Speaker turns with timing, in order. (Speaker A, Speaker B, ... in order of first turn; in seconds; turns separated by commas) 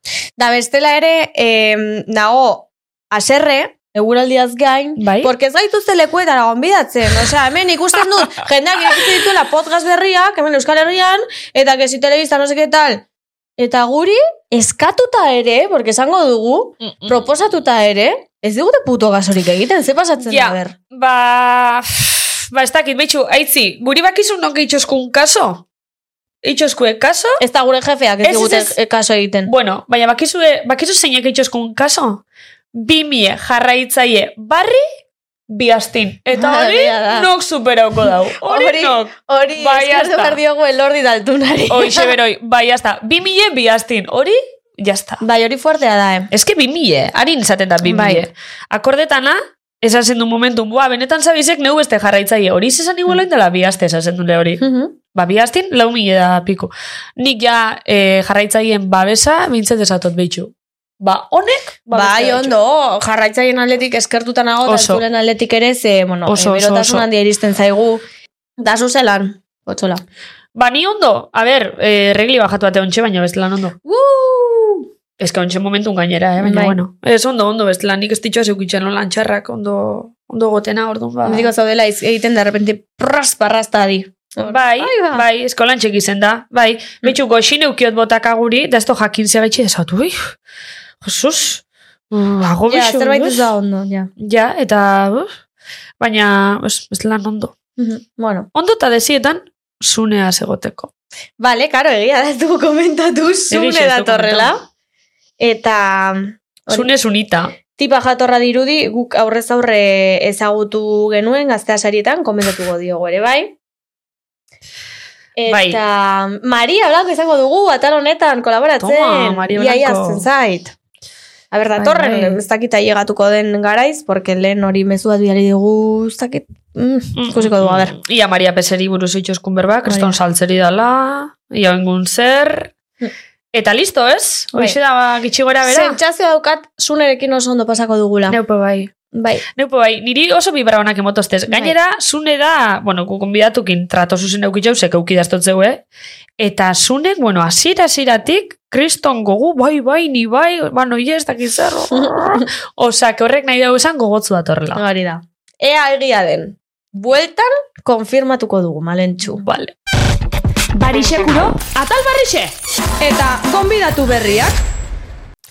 Speaker A: 0.4-13.0, Speaker B: 5.0-5.3, Speaker A: 13.6-20.7, Speaker B: 16.8-17.2, Speaker B: 20.2-25.6, Speaker B: 26.4-27.4, Speaker A: 27.4-29.5, Speaker B: 28.2-28.8, Speaker B: 29.4-34.9, Speaker B: 35.5-40.4, Speaker A: 36.3-37.3, Speaker A: 38.4-42.1, Speaker B: 41.7-45.2, Speaker A: 45.2-46.3, Speaker B: 46.3-62.5, Speaker A: 47.8-48.2, Speaker A: 54.6-54.9, Speaker A: 61.9-68.0, Speaker B: 64.6-65.0, Speaker B: 66.3-67.1, Speaker A: 68.6-70.0, Speaker B: 70.5-73.8, Speaker A: 73.8-74.8, Speaker B: 75.2-81.5, Speaker A: 76.4-76.8, Speaker A: 81.2-85.2, Speaker B: 84.4-90.3, Speaker B: 91.0-93.4, Speaker A: 92.7-94.1, Speaker B: 94.2-95.3, Speaker B: 96.0-97.5, Speaker A: 97.8-98.5, Speaker B: 98.5-100.9, Speaker A: 101.4-104.6, Speaker B: 103.5-104.5, Speaker A: 105.4-106.9, Speaker B: 106.7-107.5, Speaker A: 107.8-113.5, Speaker A: 115.3-120.7, Speaker B: 115.5-115.8, Speaker B: 118.8-120.2, Speaker A: 121.5-128.0, Speaker B: 121.8-122.4, Speaker B: 127.2-132.7, Speaker A: 129.8-130.1, Speaker B: 133.5-136.0, Speaker A: 135.6-138.4, Speaker B: 138.3-138.9, Speaker A: 139.1-139.4, Speaker B: 139.5-145.8, Speaker A: 141.5-141.7, Speaker B: 146.4-154.8, Speaker A: 154.7-159.4, Speaker B: 159.2-159.8, Speaker B: 160.7-162.6, Speaker A: 163.0-164.6